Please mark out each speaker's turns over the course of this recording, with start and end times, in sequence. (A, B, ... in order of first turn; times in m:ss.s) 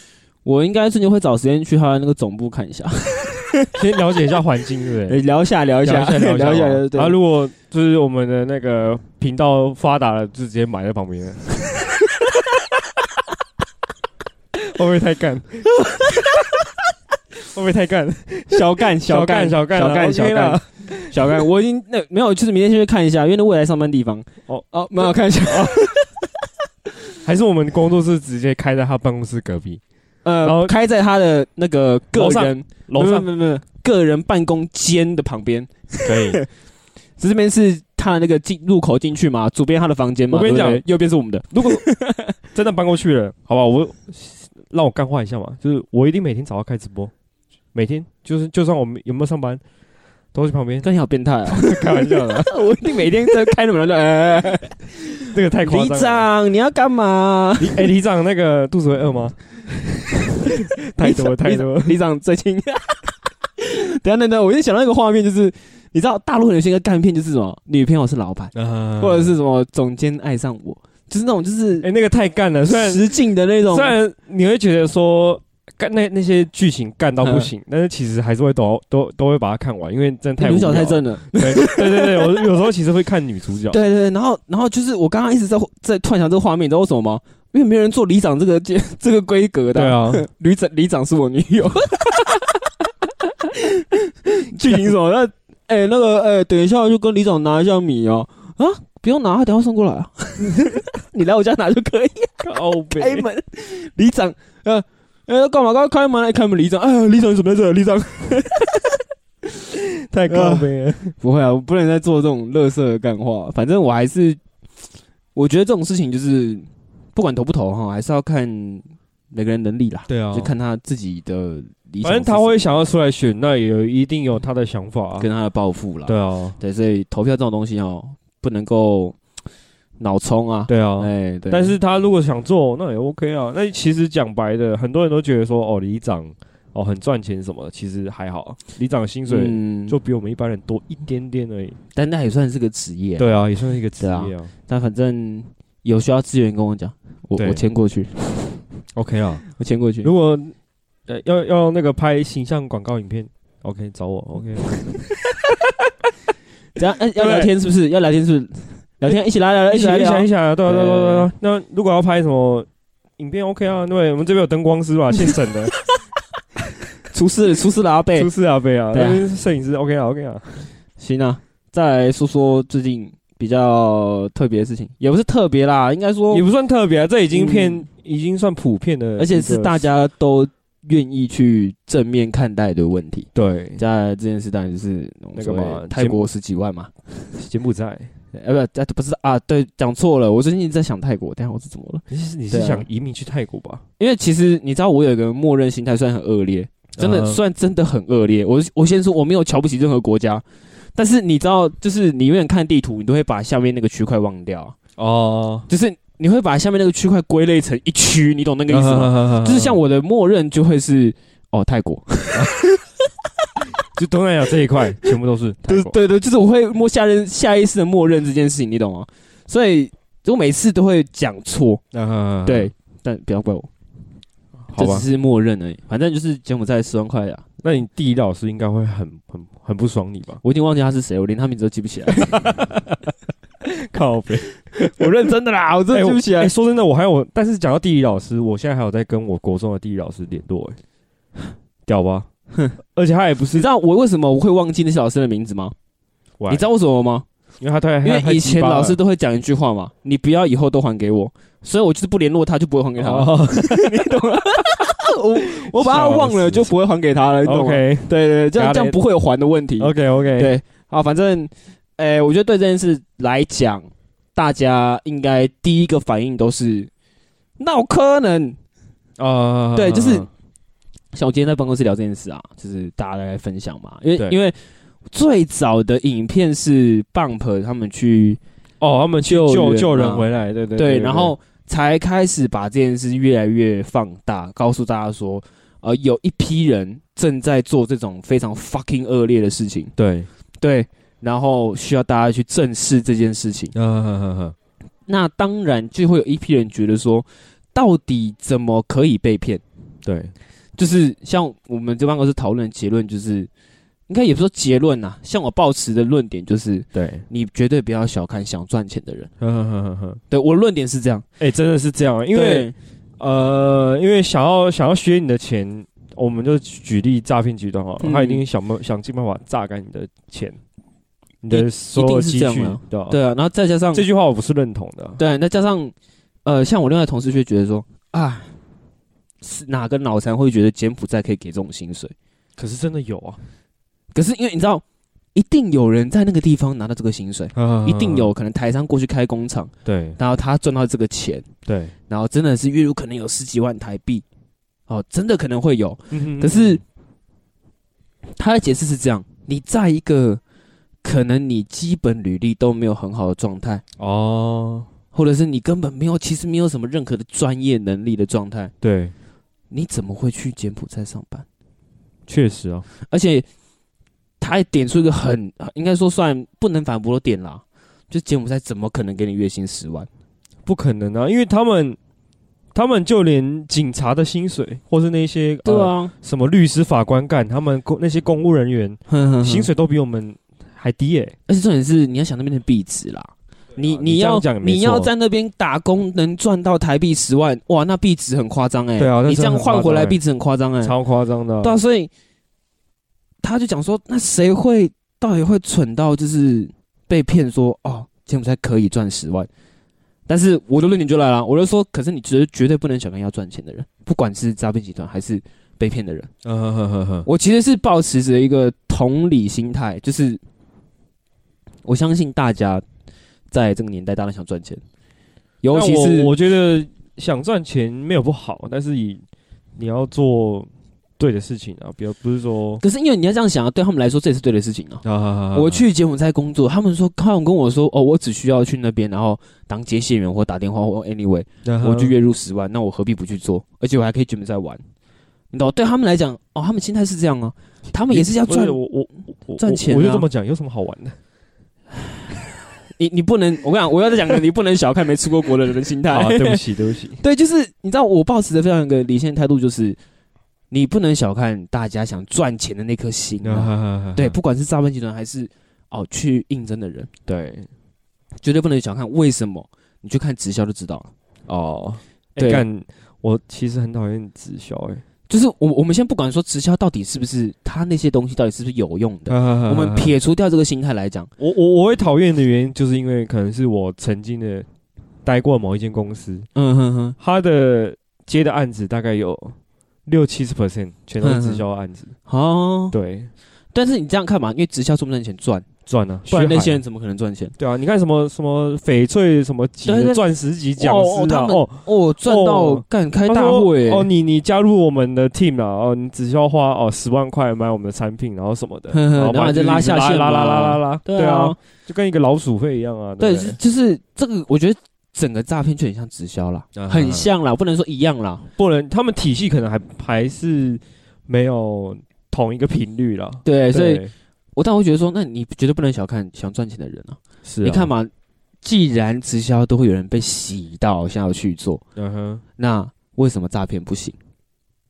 0:00.4-0:03.8 A
0:03.8-0:05.2 B
0:05.1-0:07.2 A
0:05.8-0:11.9 B
0:14.6-0:16.3 B
0:17.5-0:21.4 B
0:18.5-0:26.2 A
0:24.5-0:25.8 B
0:27.2-0:29.8 B
0:30.2-0:36.5 A
0:30.4-0:30.7 B
0:32.1-0:33.3 B
0:36.1-0:36.4 B
0:37.2-0:42.4 A
0:40.3-0:40.8 B
0:41.5-0:41.8 B
0:42.5-0:47.1 B
0:47.7-0:49.6 B
0:50.3-0:50.9 B
0:50.8-0:57.9 A
0:51.5-0:53.3 B
0:55.3-0:56.3 B
0:57.6-0:59.4 B
1:00.4-1:11.9 A
1:00.5-1:02.0 B
1:08.5-1:09.3 B
1:11.8-1:13.1 B
1:12.7-1:14.0 A
1:13.7-1:23.8 B
1:17.2-1:17.5 A
1:20.4-1:22.4 A
1:23.7-1:32.6 A
1:29.7-1:30.2 B
1:33.4-1:49.0 A
1:34.6-1:34.9 B
1:42.4-1:43.3 B
1:50.1-1:51.2 B
1:50.3-1:54.4 A
1:55.4-2:02.7 A
2:00.1-2:00.5 B
2:02.0-2:05.3 B
2:05.2-2:09.2 A
2:06.1-2:06.6 B
2:10.0-2:11.8 A
2:10.7-2:21.8 B
2:19.3-2:20.0 A
2:22.0-2:23.4 A
2:23.2-2:24.5 B
2:24.0-2:28.7 A
2:27.4-2:27.6 B
2:29.0-2:29.4 B
2:29.5-2:30.1 A
2:30.0-2:30.6 B
2:31.1-2:35.1 B
2:36.8-2:41.3 A
2:37.2-2:37.5 B
2:39.7-2:42.7 B
2:43.2-2:45.7 B
2:47.1-2:48.3 A
2:48.2-2:50.7 B
2:48.9-2:49.2 A
2:51.0-2:56.4 A
2:56.3-2:59.8 B
2:57.3-2:57.9 A
2:59.2-3:07.2 A
3:03.4-3:03.8 B
3:05.4-3:06.3 B
3:07.4-3:08.1 B
3:08.3-3:12.9 A
3:12.1-3:13.8 B
3:14.0-3:24.8 A
3:17.0-3:17.4 B
3:25.0-3:25.7 B
3:25.7-3:32.8 A
3:28.7-3:29.8 B
3:33.9-3:36.0 B
3:35.6-3:41.8 A
3:41.9-3:42.7 B
3:42.4-3:43.7 A
3:44.7-3:45.1 B
3:44.8-3:47.4 A
3:47.6-3:50.4 B
3:50.4-3:52.6 A
3:52.2-3:53.0 B
3:53.6-3:55.1 B
3:54.8-3:56.5 A
3:55.9-4:00.8 B
4:01.9-4:02.3 B
4:02.9-4:03.7 B
4:03.5-4:05.8 A
4:06.5-4:07.3 A
4:07.6-4:09.0 B
4:08.0-4:26.9 A
4:13.0-4:14.2 B
4:15.6-4:16.7 B
4:17.4-4:19.0 B
4:19.8-4:20.5 B
4:27.6-4:28.6 A
4:29.2-4:30.3 B
4:29.7-4:30.3 A
4:31.1-4:34.6 A
4:35.1-4:38.4 A
4:38.8-4:41.4 B
4:39.2-4:49.9 A
4:50.0-4:50.3 B
4:50.6-4:53.7 A
4:53.8-4:54.6 B
4:55.1-4:59.6 A
5:00.0-5:00.3 B
5:00.8-5:03.5 A
5:04.1-5:09.3 A
5:06.9-5:07.2 B
5:09.4-5:10.2 B
5:10.3-5:11.2 A
5:11.4-5:20.6 B
5:12.3-5:12.8 A
5:18.0-5:18.4 A
5:21.4-5:23.2 B
5:21.5-5:24.0 A
5:23.9-5:25.2 B
5:25.2-5:25.9 A
5:26.4-5:28.5 A
5:29.4-5:32.1 A
5:32.6-5:33.4 B
5:34.1-5:34.8 A
5:35.4-5:41.5 A
5:37.6-5:38.3 B
5:39.8-5:40.2 B
5:41.7-5:41.9 B
5:42.1-5:44.2 A
5:44.9-5:46.8 A
5:46.1-5:46.8 B
5:48.4-5:50.4 A
5:51.0-5:53.8 A
5:54.0-5:54.9 B
5:55.1-5:58.7 A
5:58.8-5:59.1 B
5:59.7-6:01.5 A
6:02.3-6:02.9 B
6:03.1-6:03.5 A
6:04.4-6:10.1 A
6:10.7-6:12.0 B
6:12.7-6:21.4 B
6:15.6-6:16.1 A
6:19.1-6:19.7 A
6:21.5-6:30.9 A
6:23.8-6:25.1 B
6:29.0-6:30.2 B
6:30.8-6:31.8 B
6:31.6-6:32.1 A
6:33.4-6:39.5 A
6:40.3-6:46.3 A
6:46.4-6:47.3 B
6:47.2-6:50.4 A
6:51.8-6:52.8 A
6:53.5-6:54.8 A
6:55.6-6:56.3 A
6:55.7-6:59.2 B
6:59.8-7:00.7 B
7:01.2-7:02.8 B
7:02.8-7:14.8 A
7:05.0-7:05.8 B
7:11.6-7:12.2 B
7:15.5-7:18.8 A
7:18.1-7:21.2 B
7:19.6-7:20.3 A
7:23.0-7:26.6 A
7:26.1-7:27.2 B
7:27.2-7:30.0 A
7:30.7-7:37.1 A
7:33.4-7:34.4 B
7:37.3-7:37.7 B
7:38.4-7:41.1 A
7:41.5-7:45.0 B
7:42.4-7:42.6 A
7:45.3-7:51.3 A
7:49.3-7:50.1 B
7:51.4-7:54.7 B
7:55.2-7:56.5 B
7:56.6-7:57.2 A
7:57.2-8:02.1 B
8:01.2-8:01.6 A
8:02.3-8:03.0 A
8:02.9-8:03.3 B
8:03.7-8:05.7 A
8:05.9-8:06.8 B
8:06.3-8:07.6 A
8:07.6-8:23.6 B
8:09.9-8:10.2 A
8:10.8-8:14.1 A
8:18.9-8:21.6 A
8:23.2-8:28.5 A
8:26.8-8:27.3 B
8:28.6-8:34.1 B
8:33.4-8:34.0 A
8:34.6-8:38.1 A
8:37.4-8:37.9 B
8:38.6-8:41.8 A
8:42.0-8:42.4 B
8:42.6-8:44.2 A